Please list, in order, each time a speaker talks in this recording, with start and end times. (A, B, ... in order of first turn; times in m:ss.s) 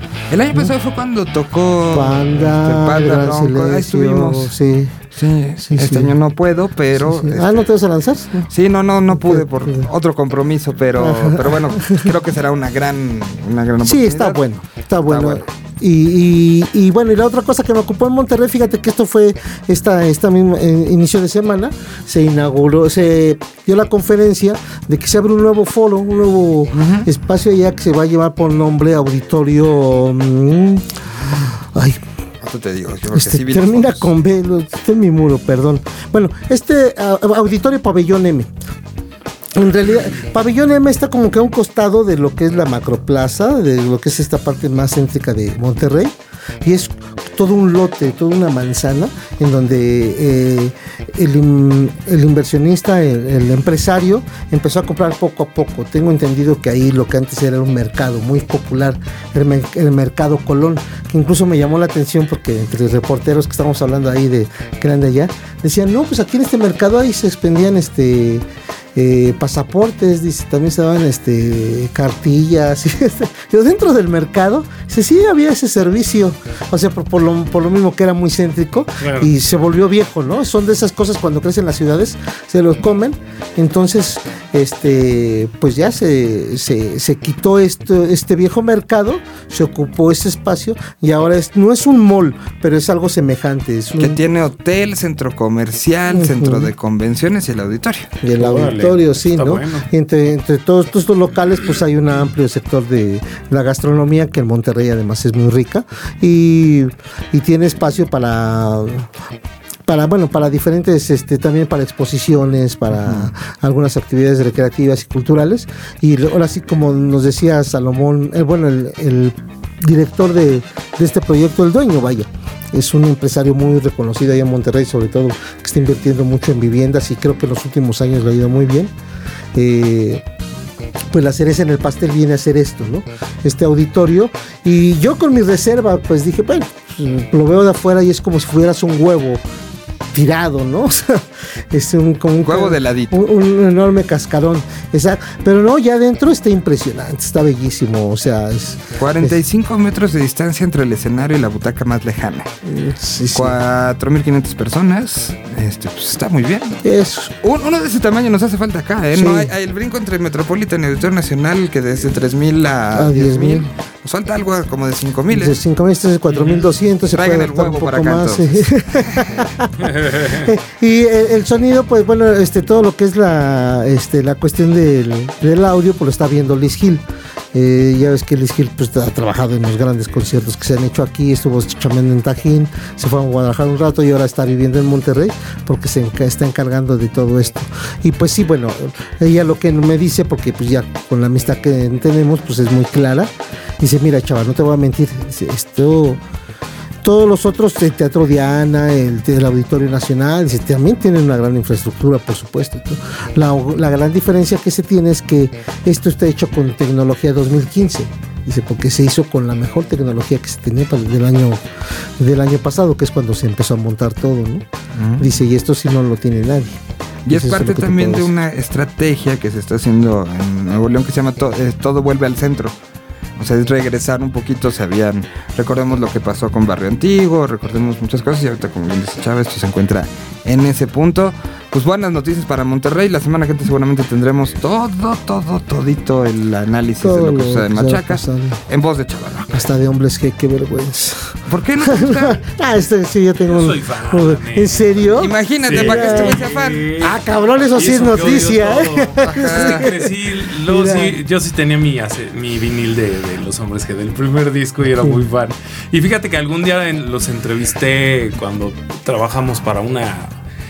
0:00.3-0:04.5 A
0:01.9-0:04.9 B
0:05.1-0:07.7 A
0:05.6-0:06.1 B
0:07.0-0:08.5 B
0:08.5-0:14.4 A
0:09.1-0:09.9 B
0:11.0-0:12.0 B
0:13.8-0:32.0 B
0:15.0-0:15.4 A
0:26.7-0:27.1 A
0:32.4-0:34.1 A
0:33.1-0:38.5 B
0:39.5-1:34.2 B
1:19.0-1:19.3 C
1:34.0-1:38.1 A
1:36.1-1:36.7 B
1:38.2-1:49.1 B
1:38.4-1:39.9 C
1:49.8-2:08.9 B
2:09.5-2:10.2 B
2:11.1-2:19.4 B
2:20.1-2:29.4 B
2:22.4-2:23.2 A
2:29.0-2:32.5 A
2:32.6-2:33.6 B
2:33.3-2:36.8 A
2:36.8-2:37.3 B
2:37.4-2:45.6 A
2:39.1-2:39.5 B
2:42.9-2:43.7 B
2:45.3-2:57.0 B
2:46.3-2:46.6 C
2:47.1-2:49.5 A
2:57.5-3:16.2 B
3:17.0-3:31.6 B
3:32.2-3:34.6 B
3:35.0-3:35.3 A
3:35.2-3:36.8 B
3:37.2-3:42.7 A
3:37.3-3:38.3 B
3:43.4-3:59.6 A
3:57.0-3:58.6 B
3:59.5-4:06.4 B
4:01.5-4:02.4 A
4:03.4-4:07.2 C
4:05.1-4:06.9 A
4:07.0-4:10.1 B
4:07.7-4:20.4 C
4:09.2-4:09.8 A
4:10.6-4:11.1 B